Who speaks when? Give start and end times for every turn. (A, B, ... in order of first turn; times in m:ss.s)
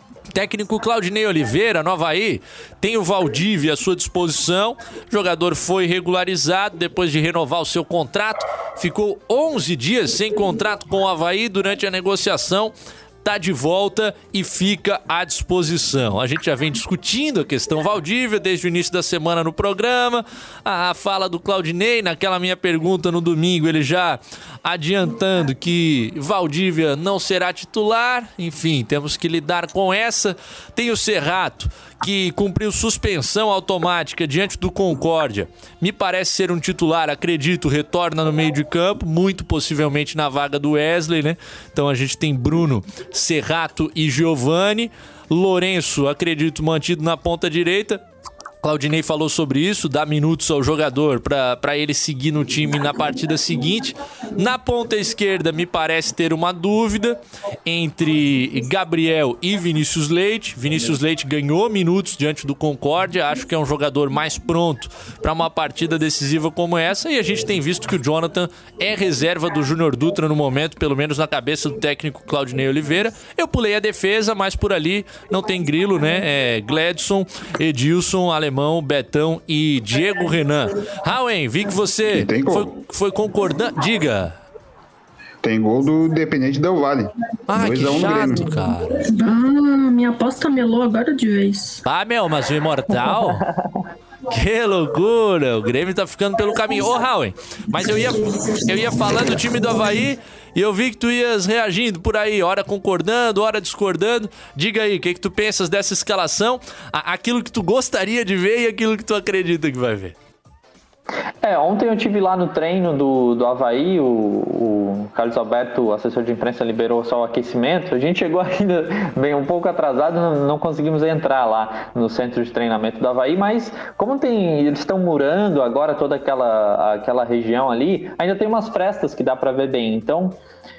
0:00.3-0:48.0 A
0:48.6-1:24.4 A
1:22.1-1:22.7 B
1:25.4-1:28.5 B
1:27.5-1:29.0 A
1:29.1-1:31.8 C
1:31.8-1:33.4 A
1:33.2-1:33.8 D
1:34.3-1:50.1 A
1:51.4-2:10.4 D